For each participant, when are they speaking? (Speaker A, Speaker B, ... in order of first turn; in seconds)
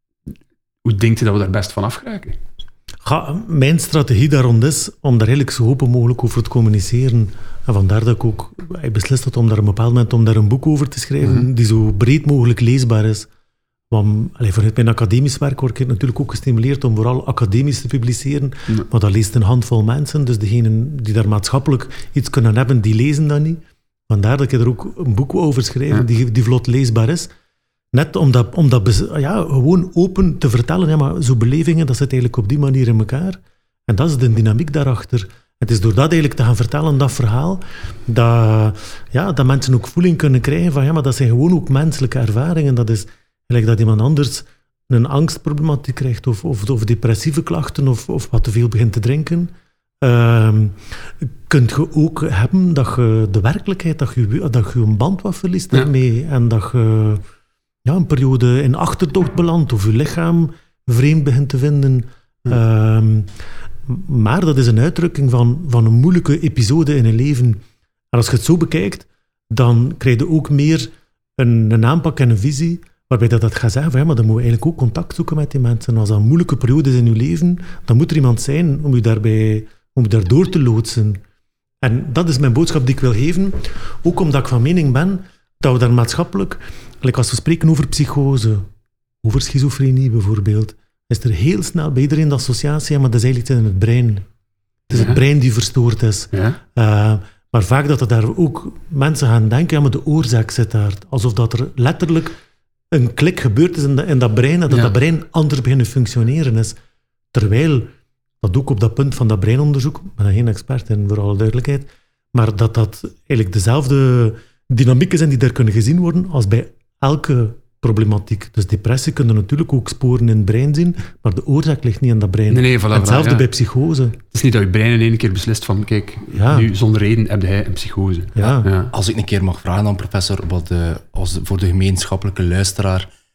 Speaker A: 0.8-2.4, 94.9-95.2, 96.3-96.6, 122.5-123.5, 124.3-128.9
Speaker B: 3.0-13.3, 13.9-27.3, 27.9-57.2, 57.8-63.3, 63.9-81.2, 81.8-88.7, 89.2-94.2, 94.9-102.4, 102.9-106.8, 107.3-124.2, 126.3-126.7, 128.3-128.7
Speaker C: 128.4-133.1